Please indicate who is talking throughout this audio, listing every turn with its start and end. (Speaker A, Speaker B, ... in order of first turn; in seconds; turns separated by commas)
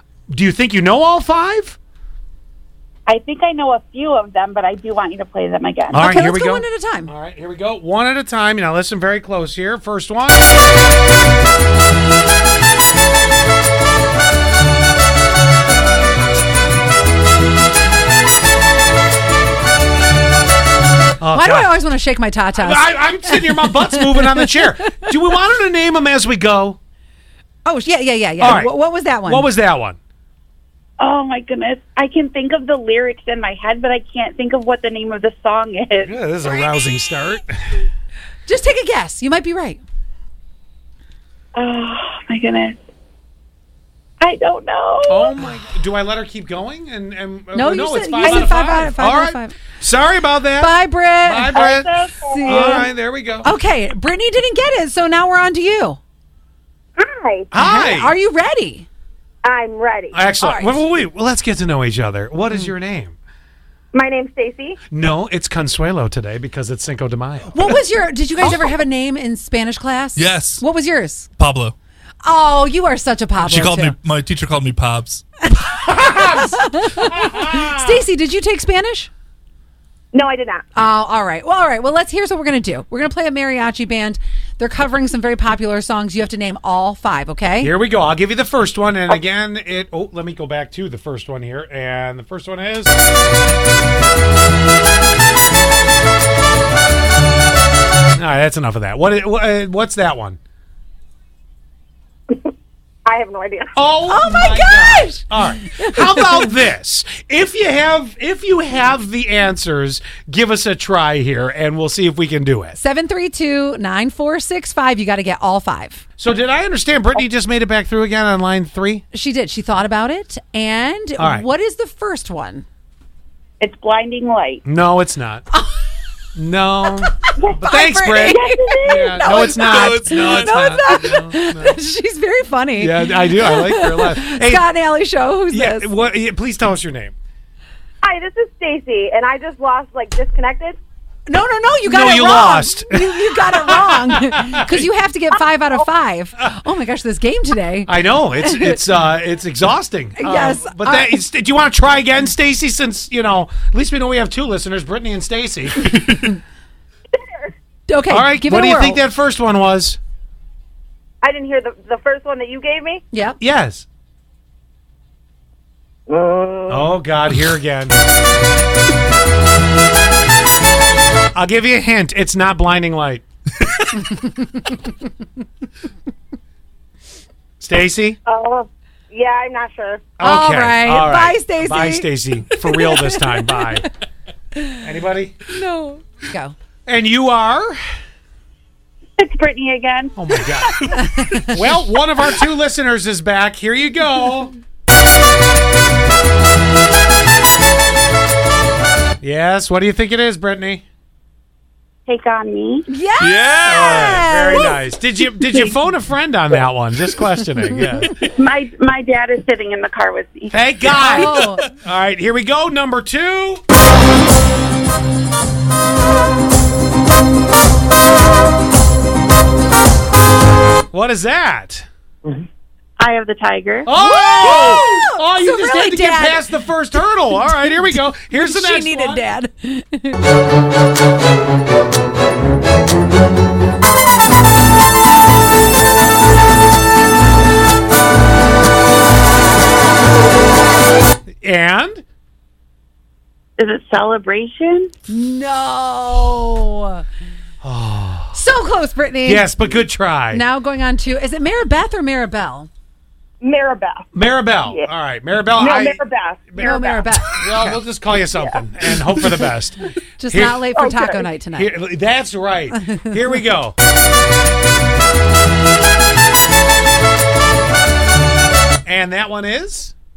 Speaker A: 0.3-1.8, Speaker B: 3.1-6.0, Speaker A: 5.9-10.5, Speaker C: 6.0-7.1, Speaker A: 21.2-21.7, Speaker C: 21.3-24.5, Speaker A: 22.6-26.8, Speaker C: 27.6-29.5, Speaker A: 28.4-28.7, Speaker A: 29.2-30.0, Speaker B: 31.0-36.1, Speaker A: 36.0-37.8, Speaker C: 38.5-39.8, Speaker B: 41.6-42.8, Speaker B: 44.2-45.4, Speaker A: 45.1-51.9, Speaker C: 47.5-49.6, Speaker C: 50.6-51.5, Speaker B: 51.5-52.9, Speaker D: 52.3-52.5, Speaker C: 52.3-52.9, Speaker A: 52.4-53.5, Speaker C: 53.4-56.0, Speaker D: 57.0-57.5, Speaker A: 57.5-58.1, Speaker C: 57.6-58.9, Speaker D: 59.5-60.2, Speaker A: 60.1-63.2, Speaker C: 60.4-60.8, Speaker D: 63.9-64.8, Speaker A: 64.9-67.7, Speaker C: 67.5-71.3, Speaker E: 68.4-68.7, Speaker E: 70.2-70.7, Speaker E: 71.4-71.8, Speaker C: 72.2-74.0, Speaker E: 73.4-75.2, Speaker C: 75.5-79.1, Speaker A: 75.8-78.0, Speaker D: 80.1-80.7, Speaker C: 80.8-87.7, Speaker A: 87.6-92.9, Speaker A: 98.2-100.4, Speaker D: 103.1-103.7, Speaker A: 103.8-112.8, Speaker C: 104.1-106.5, Speaker C: 112.8-116.0, Speaker A: 116.2-119.0, Speaker C: 119.1-122.7, Speaker A: 121.2-121.5, Speaker B: 123.6-124.6, Speaker A: 124.7-125.5, Speaker A: 126.4-131.8, Speaker C: 127.6-135.9, Speaker E: 129.3-130.6, Speaker A: 132.8-134.7, Speaker A: 135.5-137.1, Speaker D: 138.0-140.8, Speaker C: 141.3-148.8, Speaker A: 141.8-144.9, Speaker A: 147.9-156.3, Speaker C: 150.2-151.2, Speaker C: 157.9-159.0, Speaker A: 158.1-160.0, Speaker D: 161.2-163.0, Speaker C: 163.1-163.4, Speaker A: 163.4-163.9, Speaker D: 166.1-166.9, Speaker A: 166.7-168.0, Speaker A: 171.3-173.3, Speaker A: 177.6-178.2, Speaker D: 178.3-180.0, Speaker A: 180.2-183.9, Speaker C: 180.2-183.8, Speaker A: 184.8-185.5, Speaker C: 185.5-186.6, Speaker A: 186.9-187.8, Speaker B: 189.2-190.2, Speaker A: 190.2-194.5, Speaker C: 191.0-191.5, Speaker A: 199.2-200.8, Speaker B: 202.1-202.9, Speaker C: 202.9-204.8, Speaker E: 203.2-204.3, Speaker A: 203.7-208.1, Speaker C: 205.5-205.7, Speaker E: 207.8-208.3, Speaker B: 208.3-210.5, Speaker A: 210.5-213.6, Speaker C: 210.9-211.7, Speaker A: 220.9-221.9, Speaker B: 223.0-223.9, Speaker A: 223.9-229.2, Speaker C: 224.0-226.5, Speaker C: 227.3-230.2, Speaker A: 241.4-242.1, Speaker B: 243.6-244.9, Speaker C: 245.1-247.0, Speaker A: 247.6-248.4, Speaker C: 248.3-249.5, Speaker A: 249.2-250.4, Speaker C: 250.3-252.7, Speaker D: 253.4-254.1, Speaker A: 254.1-256.0, Speaker D: 255.6-257.4, Speaker A: 256.5-260.7, Speaker C: 256.6-257.4, Speaker D: 258.4-259.5, Speaker C: 260.2-261.7, Speaker D: 260.7-261.3, Speaker A: 261.5-263.8, Speaker A: 268.9-269.9